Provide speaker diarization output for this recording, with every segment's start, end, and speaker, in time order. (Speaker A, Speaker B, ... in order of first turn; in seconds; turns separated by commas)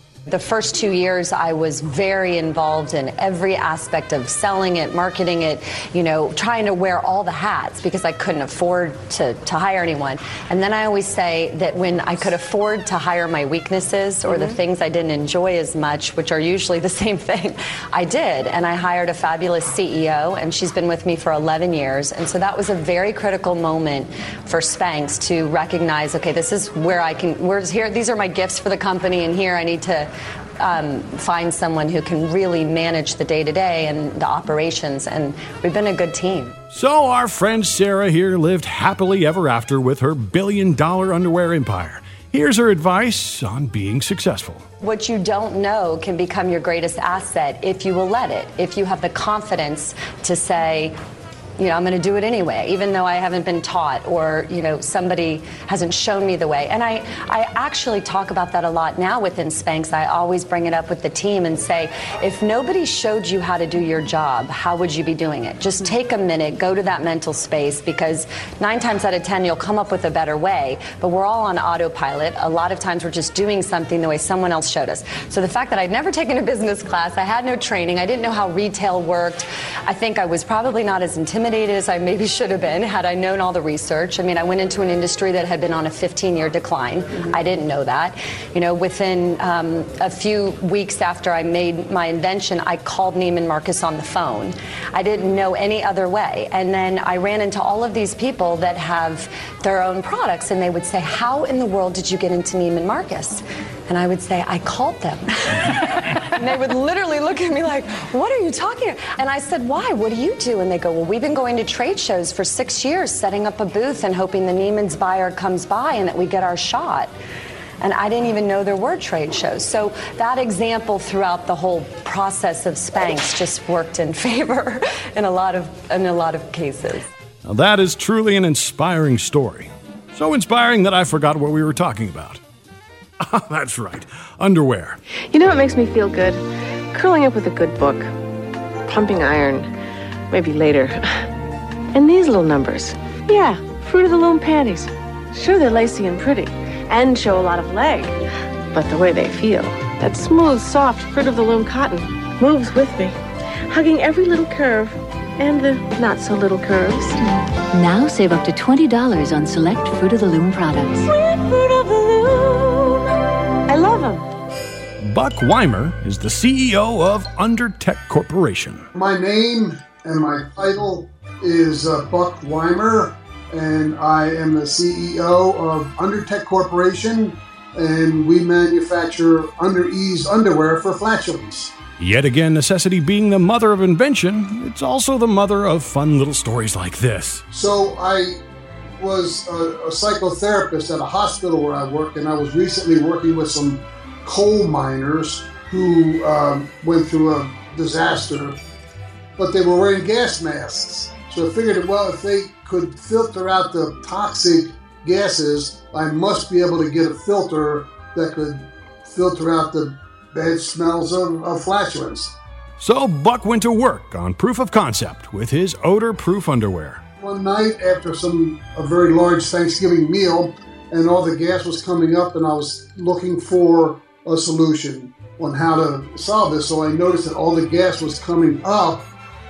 Speaker A: 0.3-36.5, Speaker B: 36.7-44.6, Speaker A: 44.8-51.0, Speaker A: 51.6-117.1, Speaker A: 117.8-127.1, Speaker B: 127.5-132.4, Speaker B: 133.2-135.0, Speaker C: 135.3-138.1, Speaker C: 138.8-139.7, Speaker C: 140.3-141.3, Speaker C: 141.9-148.2, Speaker C: 148.7-157.2, Speaker D: 157.7-161.0, Speaker C: 161.1-163.0, Speaker C: 163.7-164.3, Speaker B: 165.0-168.9, Speaker E: 168.9-181.8, Speaker B: 182.0-187.4, Speaker E: 187.5-188.4, Speaker E: 189.0-198.6, Speaker E: 199.4-212.4, Speaker B: 212.8-217.0, Speaker E: 217.2-229.1